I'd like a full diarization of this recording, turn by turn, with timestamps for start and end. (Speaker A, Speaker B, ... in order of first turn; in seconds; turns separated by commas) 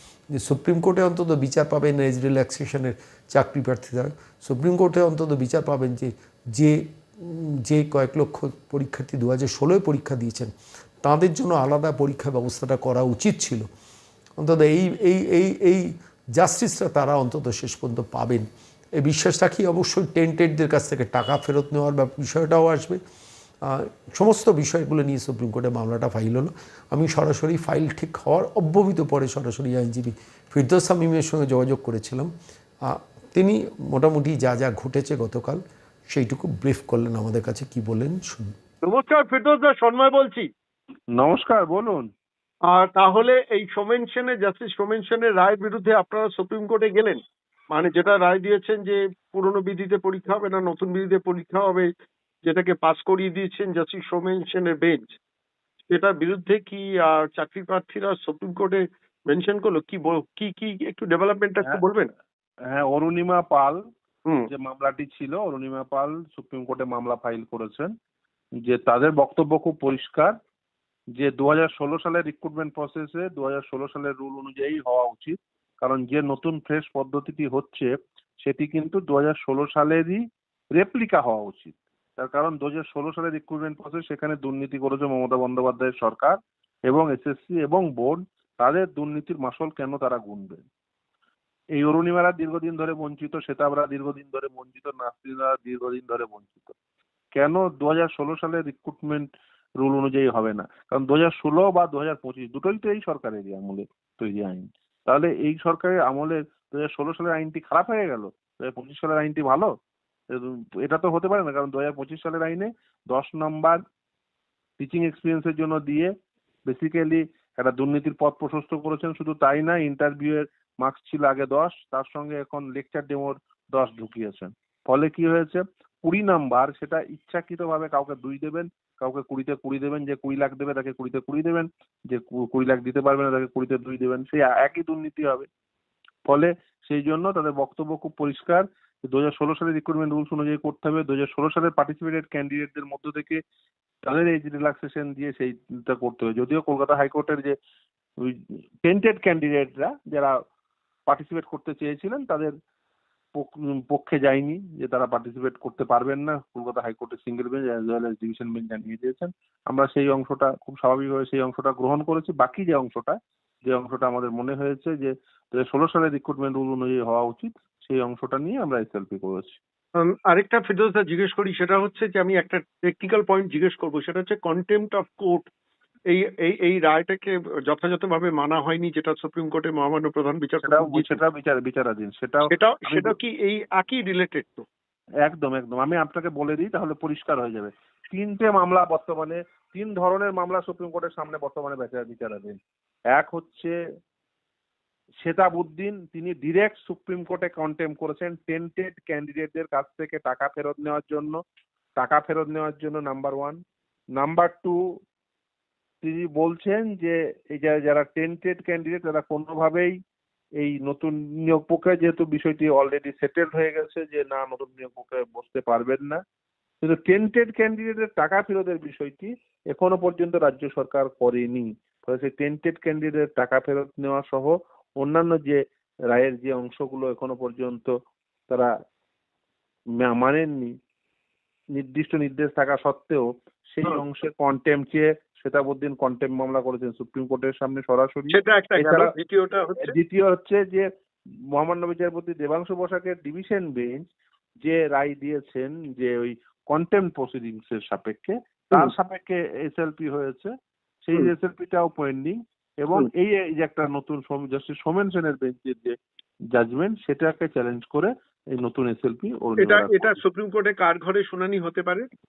Speaker A: 0.3-10.5, Speaker A: 11.0-13.7, Speaker A: 14.4-18.5, Speaker A: 19.0-23.0, Speaker A: 23.6-32.3, Speaker A: 32.9-38.5, Speaker B: 38.8-40.5, Speaker C: 41.2-42.1, Speaker B: 42.7-47.2, Speaker B: 47.7-51.9, Speaker B: 52.4-55.1, Speaker B: 55.9-62.1, Speaker C: 62.7-63.8, Speaker C: 64.5-67.9, Speaker C: 68.6-70.3, Speaker C: 71.2-77.9, Speaker C: 78.4-80.2, Speaker C: 80.8-86.4, Speaker C: 86.9-90.6, Speaker C: 91.8-96.7, Speaker C: 97.3-99.3, Speaker C: 99.8-109.7, Speaker C: 110.3-113.8, Speaker C: 114.8-116.1, Speaker C: 116.7-135.5, Speaker C: 136.3-143.4, Speaker C: 144.0-147.5, Speaker C: 148.2-150.3, Speaker C: 151.1-152.5, Speaker C: 153.4-169.6, Speaker B: 170.0-175.5, Speaker B: 176.1-181.2, Speaker C: 180.6-183.1, Speaker B: 182.5-184.7, Speaker C: 185.2-192.6, Speaker C: 193.1-193.7, Speaker C: 195.2-201.4, Speaker C: 202.0-203.6, Speaker C: 204.2-204.7, Speaker C: 206.0-209.9, Speaker C: 210.6-216.2, Speaker C: 216.8-227.9, Speaker C: 230.0-230.7, Speaker C: 231.8-239.1, Speaker B: 238.3-239.9, Speaker C: 239.8-240.8, Speaker C: 241.5-244.0, Speaker C: 244.6-250.5, Speaker C: 251.0-255.9, Speaker C: 256.5-260.2, Speaker B: 259.6-262.1